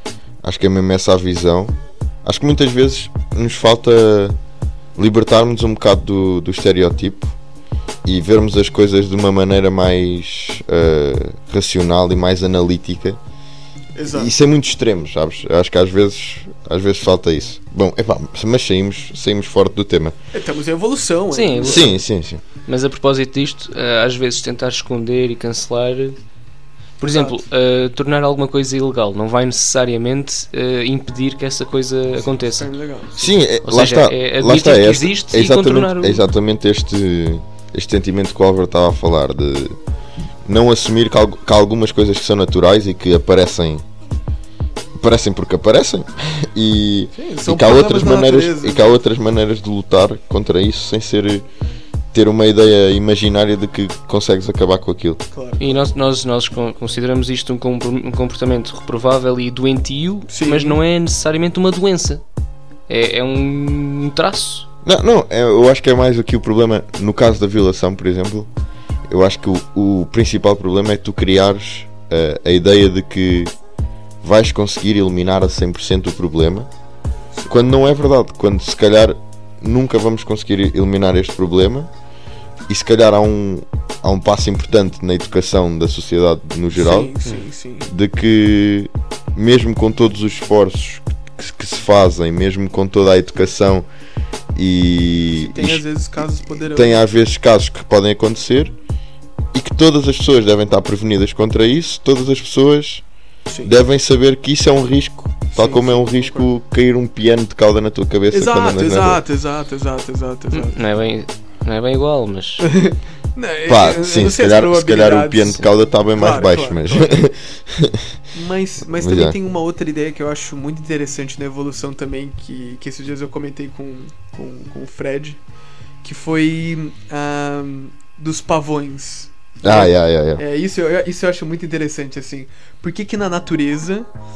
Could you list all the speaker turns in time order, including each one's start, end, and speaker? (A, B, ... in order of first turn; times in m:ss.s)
0:00.4-0:04.4 A
0:05.0-0:07.4 A
0:08.0-0:13.2 A
0:13.9-0:14.3 B
0:14.1-0:20.1 A
0:20.3-0:21.9 B
0:21.3-0:21.9 C
0:21.6-0:22.4 A
0:22.6-0:26.2 C
0:27.0-0:32.7 C
0:27.0-0:27.4 B
0:32.2-0:33.4 B
0:33.2-0:39.8 A
0:33.6-0:36.2 C
0:40.4-0:43.8 A
0:45.0-0:51.4 A
0:47.2-0:49.0 B
0:52.1-0:55.2 A
0:55.3-0:55.8 B
0:55.6-1:02.2 C
1:00.3-1:00.8 B
1:02.9-1:04.7 C
1:04.8-1:08.5 A
1:09.1-1:13.5 A
1:14.2-1:16.7 A
1:17.3-1:17.6 B
1:17.5-1:21.9 A
1:22.7-1:27.1 A
1:26.8-1:27.9 B
1:27.9-1:33.8 A
1:34.5-1:35.8 A
1:35.4-1:37.0 B
1:36.6-1:38.7 A
1:39.5-1:43.0 A
1:43.5-1:43.7 B
1:43.6-1:49.2 A
1:45.5-1:46.5 B
1:48.3-1:50.8 B
1:50.5-1:52.7 C
1:52.6-1:57.2 B
1:53.7-1:58.2 A
1:58.3-2:05.4 B
1:59.0-1:59.4 A
2:06.0-2:14.1 B
2:09.6-2:10.4 A